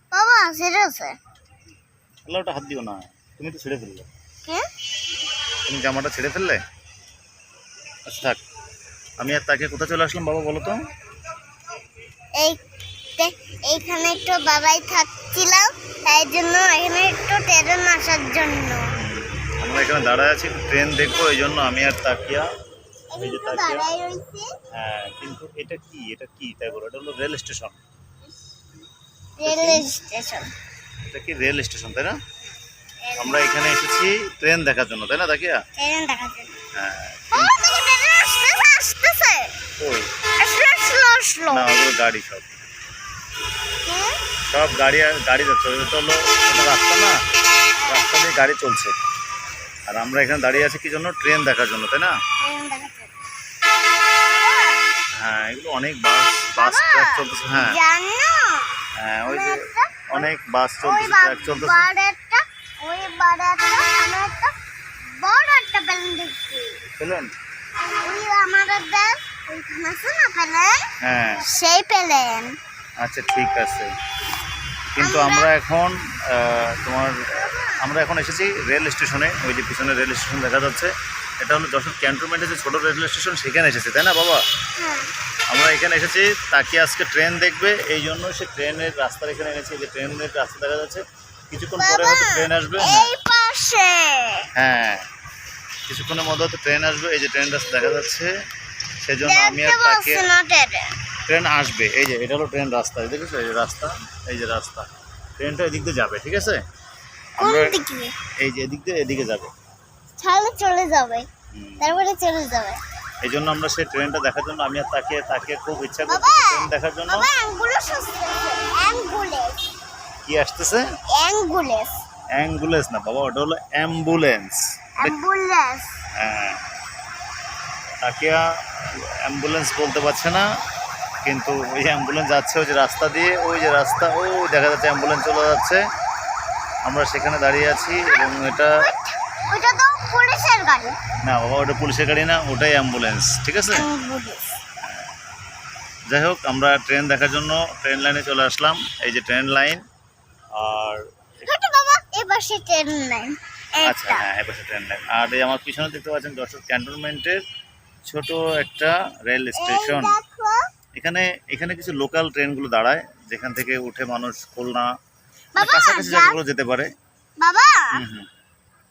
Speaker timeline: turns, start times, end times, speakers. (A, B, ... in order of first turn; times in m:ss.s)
0:00.1-0:01.2 A
0:02.2-0:04.1 B
0:05.7-0:06.6 B
0:08.1-0:08.4 B
0:09.2-0:10.8 B
0:12.4-0:12.6 A
0:13.2-0:18.9 A
0:19.0-0:22.5 B
0:23.1-0:24.5 A
0:23.2-0:23.9 B
0:24.7-0:27.8 B
0:29.4-0:30.5 A
0:29.4-0:29.9 B
0:31.0-0:32.2 B
0:33.0-0:33.8 A
0:33.2-0:35.6 B
0:35.8-0:36.6 A
0:36.8-0:37.5 B
0:37.3-0:39.6 A
0:39.8-0:40.1 B
0:40.4-0:41.8 A
0:41.5-0:42.5 B
0:43.8-0:44.2 A
0:44.5-0:47.2 B
0:47.8-0:48.1 A
0:47.9-0:49.0 B
0:49.9-0:52.2 B
0:52.4-0:53.1 A
0:54.1-0:55.0 A
0:55.2-0:57.8 B
0:56.6-1:00.3 A
0:59.0-1:01.9 B
1:00.8-1:04.6 A
1:05.1-1:06.8 A
1:07.0-1:07.3 B
1:08.0-1:10.9 A
1:11.0-1:11.4 B
1:11.4-1:12.6 A
1:13.0-1:13.9 B
1:15.0-1:24.4 B
1:15.0-1:15.5 A
1:17.3-1:17.8 A
1:24.8-1:25.1 A
1:25.5-1:33.1 B
1:31.8-1:34.5 A
1:34.6-1:35.0 B
1:35.9-1:38.3 B
1:39.0-1:40.3 B
1:39.2-1:41.0 A
1:41.3-1:44.9 B
1:45.4-1:46.6 B
1:47.4-1:47.8 B
1:47.4-1:48.2 A
1:48.4-1:49.5 B
1:50.2-1:51.3 A
1:51.5-1:52.0 B
1:51.8-1:52.8 A
1:53.2-1:57.3 B
1:56.1-1:59.6 A
2:00.2-2:00.9 B
2:01.1-2:02.0 A
2:02.4-2:05.2 B
2:05.0-2:06.0 A
2:06.2-2:06.7 B
2:08.0-2:10.4 B
2:11.2-2:15.8 B
2:16.8-2:18.8 B
2:18.1-2:21.0 A
2:21.2-2:23.9 B
2:23.7-2:24.6 A
2:26.1-2:29.8 B
2:30.6-2:31.0 B
2:31.5-2:34.3 A
2:33.8-2:37.4 B
2:38.1-2:40.2 B
2:39.6-2:40.6 A
2:41.0-2:44.9 B
2:45.5-2:46.4 A
2:45.6-2:46.9 B
2:47.4-2:48.0 A
2:47.9-2:48.3 B